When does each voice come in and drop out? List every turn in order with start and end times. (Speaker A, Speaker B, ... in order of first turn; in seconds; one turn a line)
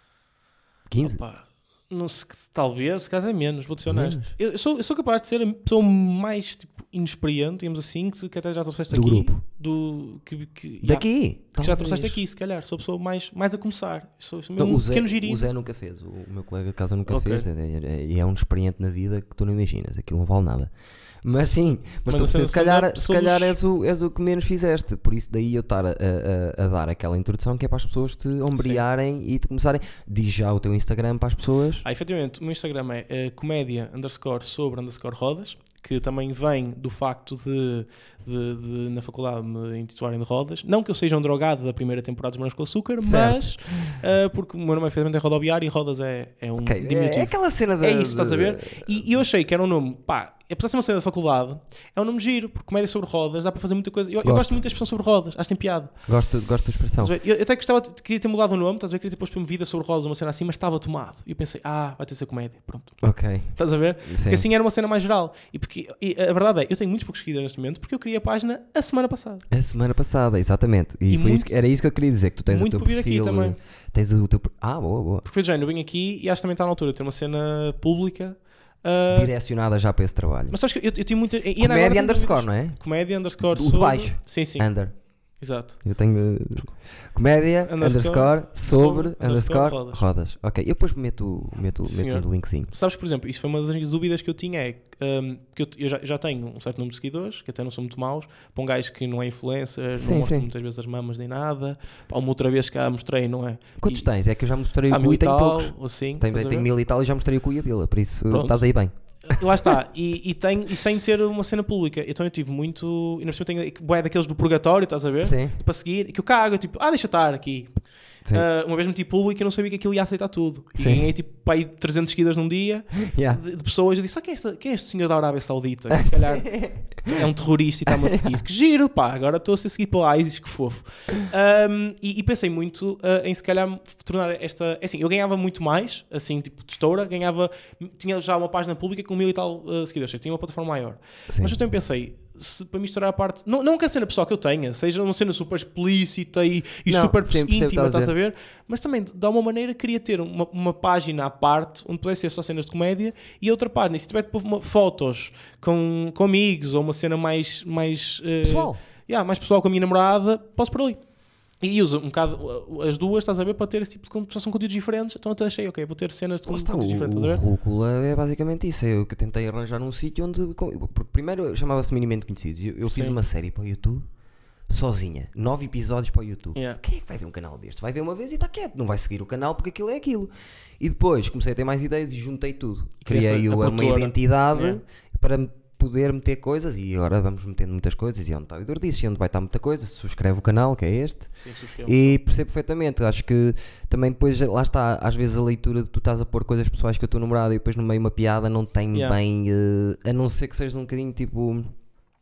Speaker A: 0.9-1.2
Speaker B: 1.0-15.4
Speaker A: 3.9-4.3
Speaker A: 8.9-9.4
Speaker A: 10.8-12.2
Speaker A: 14.6-31.8
Speaker B: 17.1-17.4
Speaker B: 22.1-23.6
Speaker B: 28.6-28.8
Speaker B: 31.8-56.1
Speaker A: 43.0-43.9
Speaker A: 46.6-49.2
Speaker A: 54.2-54.6
Speaker A: 56.0-57.1
Speaker B: 57.0-69.4
Speaker A: 63.0-64.5
Speaker A: 69.5-75.2
Speaker B: 71.1-71.5
Speaker B: 72.5-73.6
Speaker B: 75.2-79.3
Speaker A: 79.1-80.6
Speaker B: 80.5-85.8
Speaker A: 81.6-92.7
Speaker B: 87.6-90.0
Speaker B: 91.8-104.1
Speaker A: 100.0-100.5
Speaker A: 103.8-109.7
Speaker B: 104.8-106.7
Speaker B: 108.3-167.4
Speaker A: 115.2-115.5
Speaker A: 120.8-121.1
Speaker A: 123.1-123.4
Speaker A: 126.0-127.2
Speaker A: 141.3-141.6
Speaker A: 146.9-148.1
Speaker A: 158.4-158.8
Speaker A: 166.4-174.1
Speaker B: 172.9-173.2
Speaker A: 174.7-201.8
Speaker B: 176.5-176.8
Speaker B: 183.1-184.8
Speaker B: 191.3-192.2